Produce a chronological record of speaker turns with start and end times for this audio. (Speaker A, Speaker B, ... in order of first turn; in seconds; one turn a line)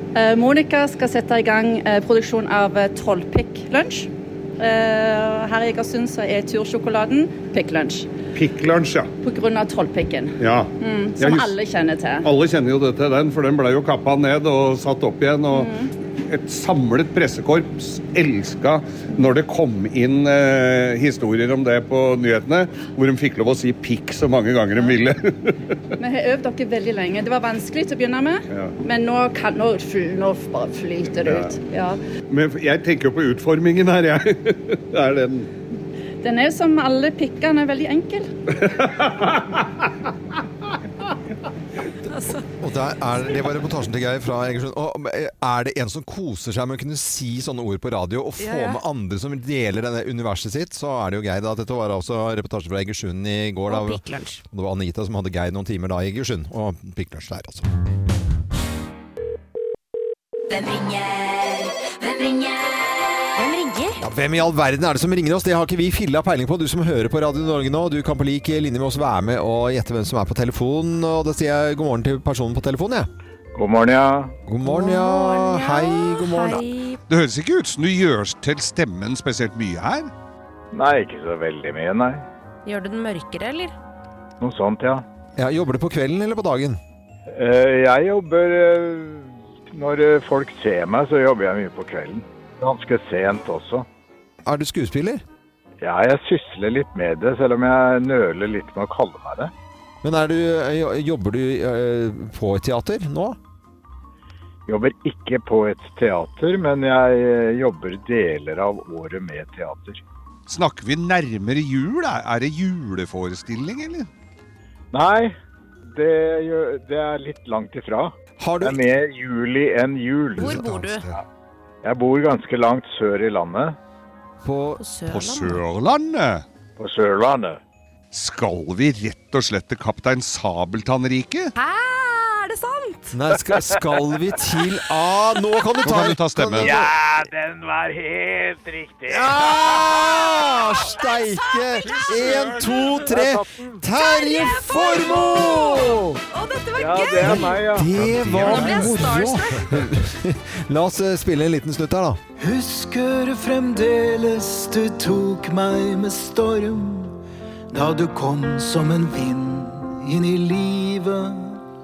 Speaker A: 0.1-8.1
Speaker B: 8.3-9.1
Speaker A: 9.2-12.3
Speaker B: 10.4-11.5
Speaker B: 12.2-25.6
Speaker A: 15.5-15.9
Speaker A: 26.0-32.0
Speaker B: 31.2-31.6
Speaker B: 32.3-35.5
Speaker A: 36.2-38.3
Speaker B: 38.6-39.7
Speaker C: 42.0-42.4
Speaker D: 42.4-57.6
Speaker C: 48.4-48.8
Speaker C: 53.7-54.4
Speaker E: 60.5-63.0
Speaker C: 63.4-64.0
Speaker D: 64.0-73.1
Speaker F: 73.5-74.3
Speaker D: 74.5-76.6
Speaker C: 74.6-77.0
Speaker B: 77.1-80.1
Speaker F: 80.7-82.2
Speaker C: 82.6-83.7
Speaker F: 84.4-85.0
Speaker D: 85.4-86.8
Speaker F: 87.3-93.8
Speaker D: 94.4-95.2
Speaker F: 95.8-99.5
Speaker D: 100.0-103.4
Speaker F: 104.7-110.0
Speaker B: 110.5-114.1
Speaker F: 114.9-115.3
Speaker F: 115.9-120.5
Speaker D: 118.4-118.8
Speaker C: 120.4-121.0
Speaker B: 120.5-121.2
Speaker F: 121.8-123.8
Speaker D: 124.4-124.8
Speaker C: 124.8-125.6
Speaker B: 125.1-126.4
Speaker F: 126.8-127.6
Speaker B: 128.1-131.5
Speaker C: 131.6-133.2
Speaker D: 133.1-136.9
Speaker F: 133.5-134.0
Speaker B: 135.8-136.7
Speaker F: 136.6-140.2
Speaker D: 139.1-146.0
Speaker C: 140.3-143.1
Speaker B: 141.8-142.7
Speaker F: 142.5-143.8
Speaker C: 144.0-147.6
Speaker F: 146.8-147.9
Speaker D: 147.2-152.2
Speaker B: 147.9-149.0
Speaker C: 148.4-149.8
Speaker G: 152.4-157.2
Speaker G: 157.7-161.6